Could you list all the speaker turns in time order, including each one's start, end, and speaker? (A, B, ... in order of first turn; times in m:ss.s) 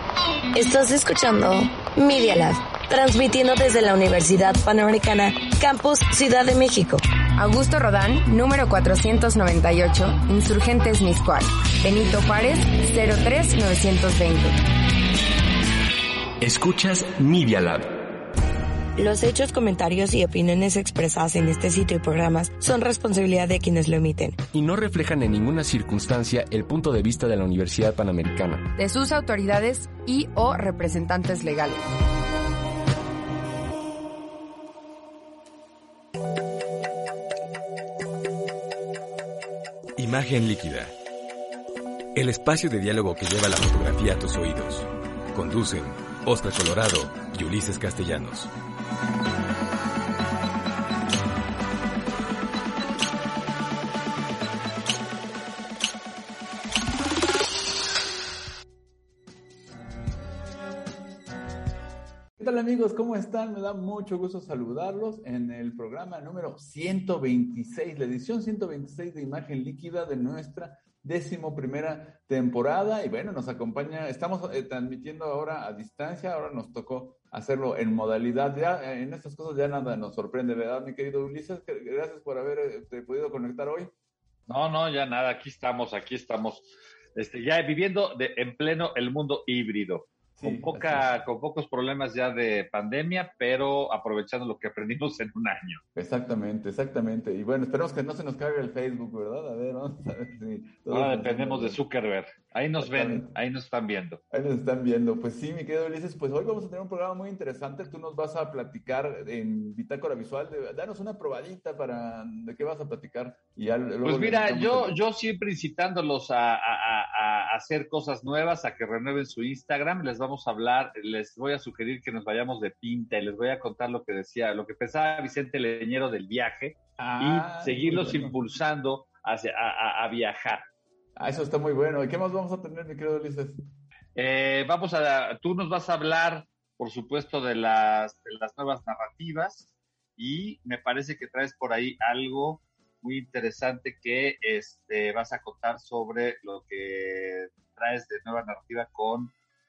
0:00.5-0:07.0 A
0:07.4-0:14.6 B
0:16.4-0:17.9 C
0:19.0-0:24.4 A
0:24.5-0:28.7 C
0:28.8-0:31.9 B
0:40.0-0:40.9 D
0:42.1-0:48.5 D
1:02.4-1:23.9 E
1:24.5-1:35.8 F
1:30.4-1:31.1 E
1:35.9-1:41.8 E
1:40.9-1:44.2 F
1:42.8-1:43.3 E
1:44.3-1:55.0 E
1:54.0-2:10.6 F
2:07.0-2:08.4 E
2:11.2-2:13.6 E
2:14.1-2:29.3 F